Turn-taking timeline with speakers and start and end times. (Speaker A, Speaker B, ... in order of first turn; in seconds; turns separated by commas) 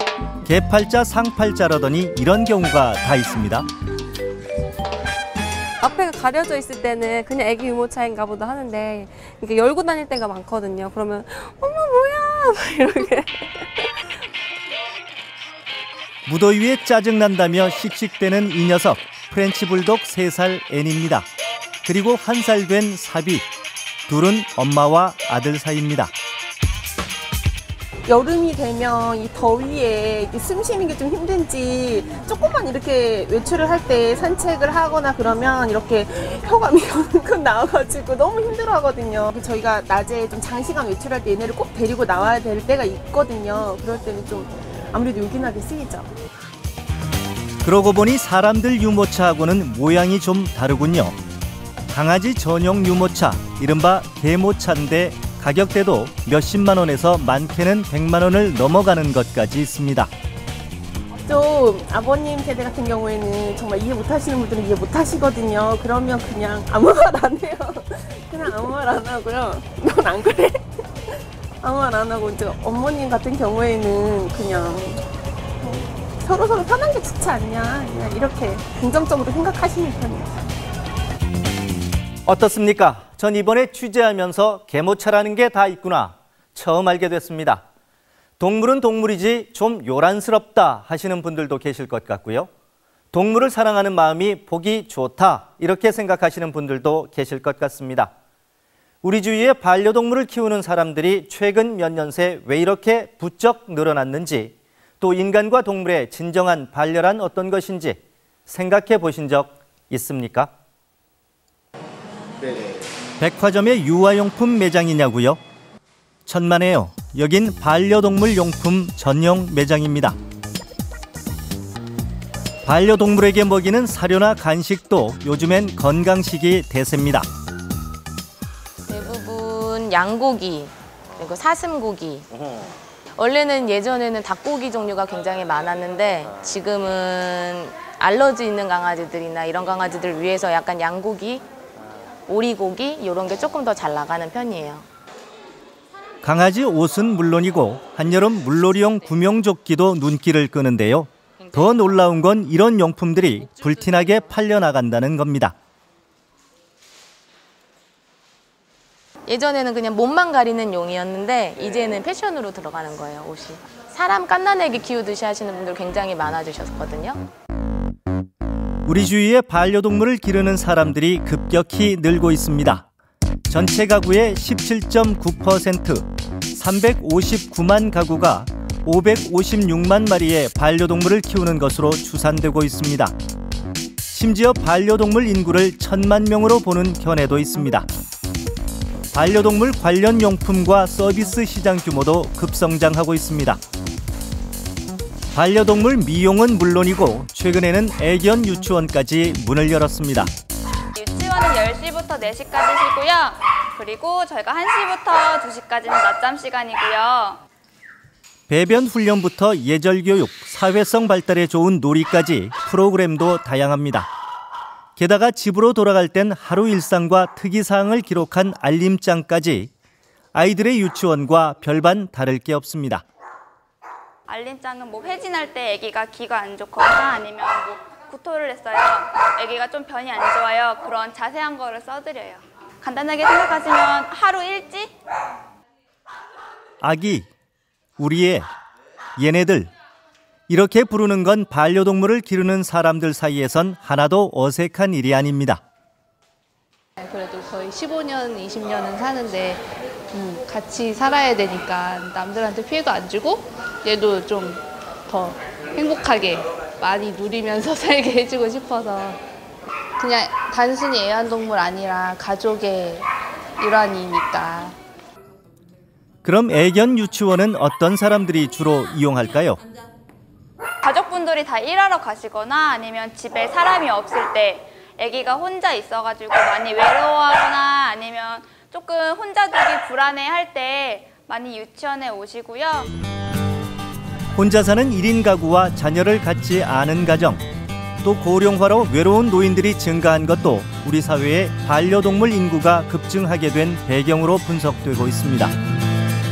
Speaker A: 0.4-3.7, Speaker B: 5.8-14.1, Speaker A: 16.3-21.3, Speaker A: 21.9-23.4, Speaker A: 24.1-26.1, Speaker C: 28.1-46.1, Speaker A: 47.6-51.2, Speaker A: 51.9-60.1, Speaker C: 61.2-75.0, Speaker C: 75.6-80.3, Speaker A: 82.3-87.6, Speaker A: 88.4-92.5, Speaker A: 93.1-98.1, Speaker A: 99.0-110.5, Speaker A: 113.2-115.4, Speaker A: 116.3-120.2, Speaker A: 122.7-127.3, Speaker D: 128.9-132.3, Speaker D: 133.2-141.4, Speaker D: 142.3-144.9, Speaker A: 146.2-155.6, Speaker D: 159.3-167.2, Speaker A: 168.9-172.9, Speaker A: 173.5-183.2, Speaker A: 184.1-187.9, Speaker A: 189.1-193.6, Speaker A: 195.3-200.3, Speaker E: 200.9-207.4, Speaker A: 208.5-214.1, Speaker A: 215.0-219.7, Speaker A: 220.3-223.0, Speaker E: 224.3-234.9, Speaker A: 236.8-237.3, Speaker A: 238.0-238.5, Speaker A: 239.2-239.7, Speaker A: 240.5-245.6, Speaker F: 247.0-249.6, Speaker F: 250.1-259.2, Speaker F: 260.0-263.1, Speaker F: 263.6-264.8, Speaker A: 266.2-269.6, Speaker E: 270.8-282.9, Speaker A: 284.4-287.4, Speaker A: 288.0-295.5